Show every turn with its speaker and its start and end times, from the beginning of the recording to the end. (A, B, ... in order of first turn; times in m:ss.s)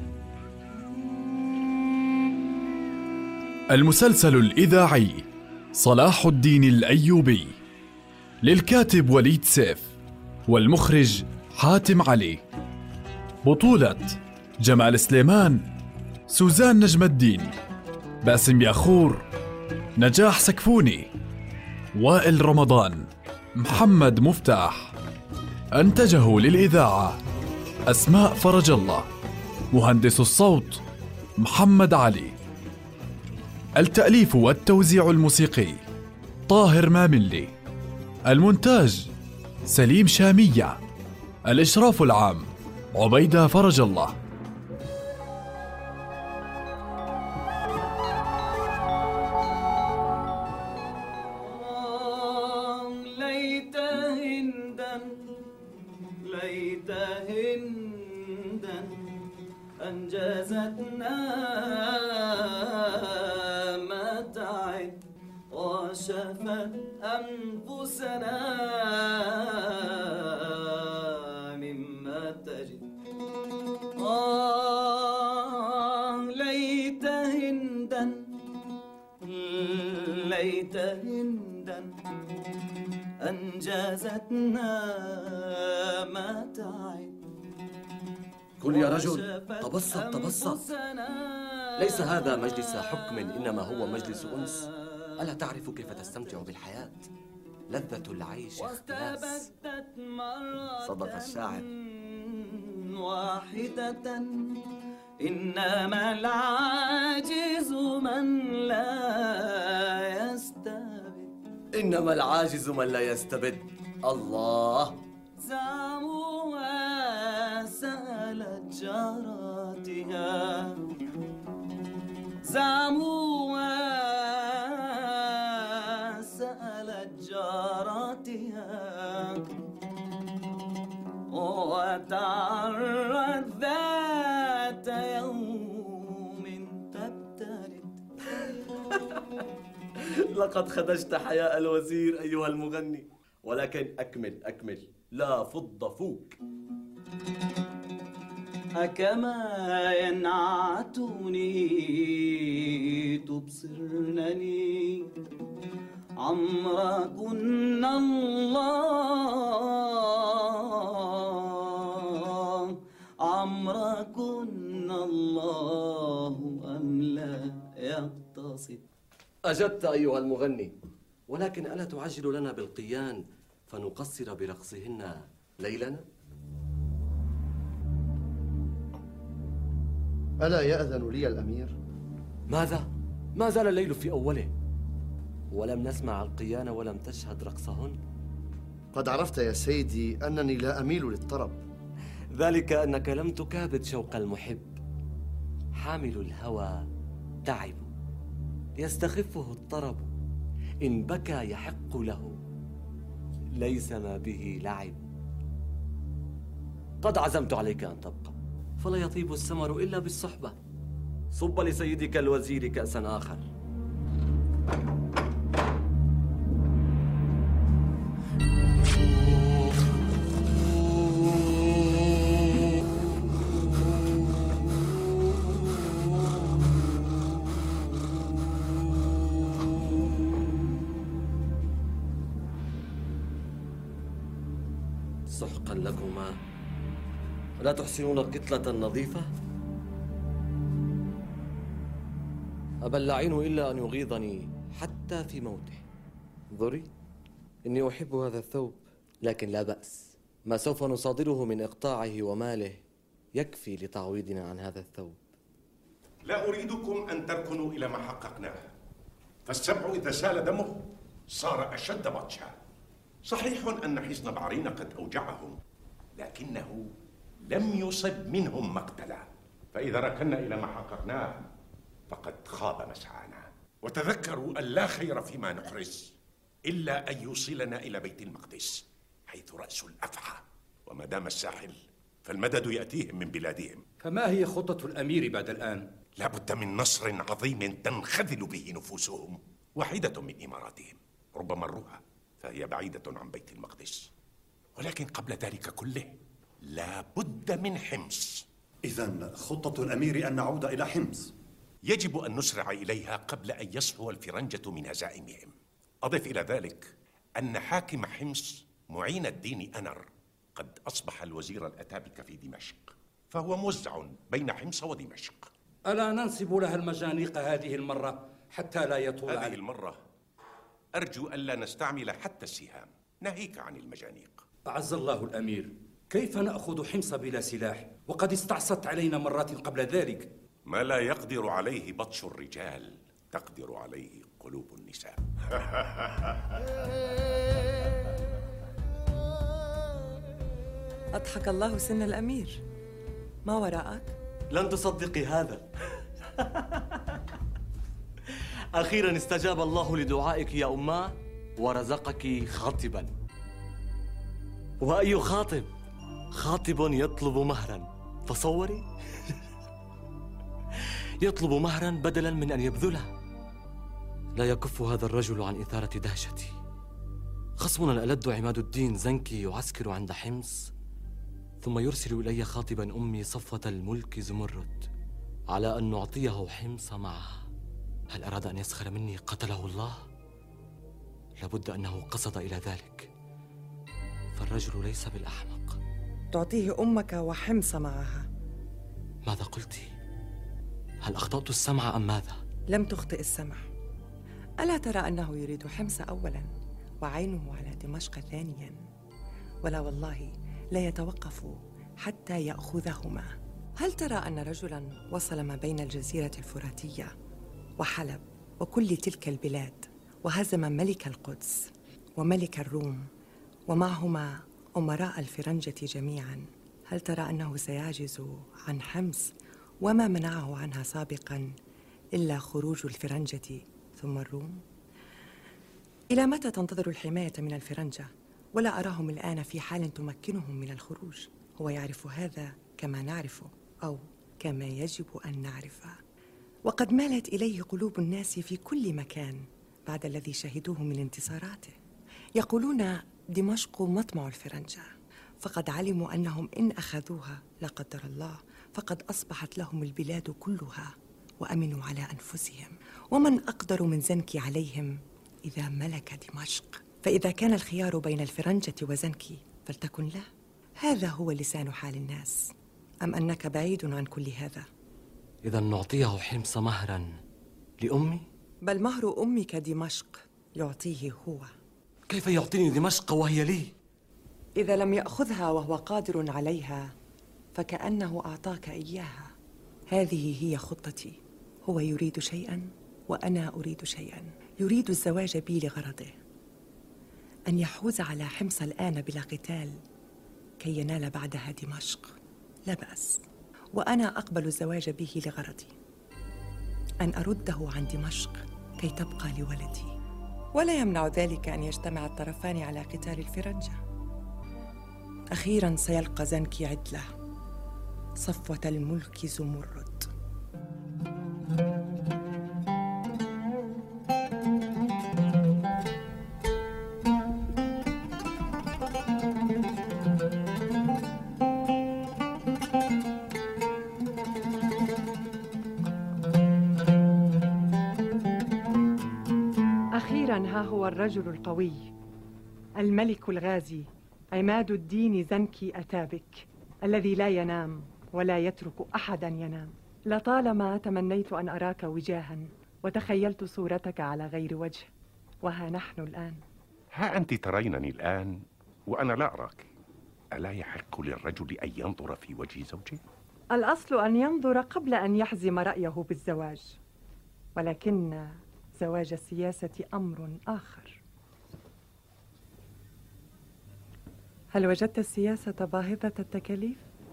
0:03.7-0:07.6 A
0:08.4-0:09.9 A
0:10.5-0:12.4 A
0:13.4-0:15.7 A
0:16.3-0:17.5 A
0:18.2-0:19.2 A
0:20.0-0:21.1 A
0:21.9-0:25.0 A
0:25.7-0:27.2 A
0:27.9-0:29.1 A
0:29.7-0:30.8 A
0:31.4-0:32.4 A
0:33.8-0:35.8 A
0:36.5-0:37.5 A
0:38.3-0:39.1 A
0:39.6-0:40.8 A
0:41.5-0:44.2 A
0:51.4-0:55.3 B
0:56.2-0:59.0 B
0:59.8-1:05.0 B
1:05.5-1:12.9 B
1:14.0-1:18.3 B
1:19.2-1:21.9 B
1:23.2-1:27.2 B
1:28.6-1:30.6 C
1:28.6-1:35.4 B
1:31.8-1:34.6 C
1:35.2-1:37.1 C
1:37.7-1:39.5 C
1:38.6-1:44.6 B
1:40.8-1:41.6 C
1:45.2-1:51.3 B
1:51.8-1:55.0 C
1:55.4-2:00.8 B
2:02.4-2:09.5 B
2:11.3-2:18.0 B
2:20.3-2:26.4 C
2:28.8-2:35.1 B
2:36.2-2:48.8 B
2:49.5-2:50.7 C
2:51.3-2:56.0 C
3:00.4-3:01.7 D
3:02.5-3:04.5 C
3:05.5-3:08.0 C
3:08.9-3:11.6 D
3:12.3-3:14.8 C
3:15.8-3:16.8 C
3:17.5-3:17.9 C
3:18.8-3:20.1 C
3:20.8-3:22.4 C
3:23.6-3:25.0 C
3:27.0-3:30.6 C
3:31.4-3:33.5 C
3:55.3-3:56.4 C
3:57.6-3:59.3 C
4:02.8-4:05.8 C
4:06.5-4:06.9 C
4:07.7-4:12.8 C
4:13.4-4:15.2 C
4:16.2-4:18.7 E
4:19.5-4:20.8 E
4:21.3-4:22.5 E
4:23.2-4:25.6 E
4:26.2-4:26.9 E
4:27.4-4:31.4 E
4:32.1-4:36.1 E
4:36.7-4:43.8 E
4:44.0-4:45.9 F
4:46.2-4:54.1 E
4:54.8-4:56.1 E
4:56.7-4:58.4 E
4:58.8-5:01.3 G
5:01.8-5:15.5 E
5:15.9-5:19.6 F
5:19.3-5:20.0 E
5:21.0-5:24.4 E
5:24.7-5:30.3 F
5:30.7-5:36.1 E
5:41.2-5:42.6 H
5:43.5-5:44.1 H
5:44.5-5:45.6 C
5:48.7-5:53.1 C
5:54.8-5:55.7 C
5:56.3-5:58.9 C
6:01.2-6:03.1 C
6:04.4-6:06.6 C
6:07.6-6:10.7 C
6:11.6-6:14.9 C
6:15.5-6:17.4 C
6:18.1-6:20.0 C
6:21.4-6:23.1 C
6:24.4-6:25.8 C
6:26.3-6:28.2 H
6:29.3-6:29.9 C
6:31.0-6:32.4 C
6:32.7-6:33.6 H
6:34.6-6:36.5 H
6:37.0-6:38.8 H
6:39.6-6:47.1 H
6:47.8-6:53.1 H
6:53.7-6:59.3 H
6:59.8-7:01.5 H
7:02.2-7:04.6 H
7:06.1-7:16.0 H
7:16.7-7:21.8 H
7:22.4-7:24.9 H
7:25.4-7:40.3 H
7:40.8-7:44.7 H
7:45.4-7:47.2 C
7:47.8-7:48.2 C
7:48.6-7:51.5 H
7:52.1-7:53.7 C
7:54.6-7:56.9 H
7:57.6-7:59.3 H
7:59.9-8:06.2 H
8:07.5-8:09.8 H
8:10.6-8:12.1 H
8:12.7-8:13.2 H
8:13.7-8:15.7 H
8:17.0-8:19.9 H
8:20.6-8:23.8 H
8:25.3-8:27.1 H
8:28.2-8:30.1 H
8:50.0-8:51.9 H
8:52.8-9:04.9 H
9:05.4-9:06.4 H
9:07.0-9:09.7 E
9:10.3-9:13.0 E
9:13.5-9:16.8 H
9:17.6-9:21.0 H
9:24.5-9:26.8 H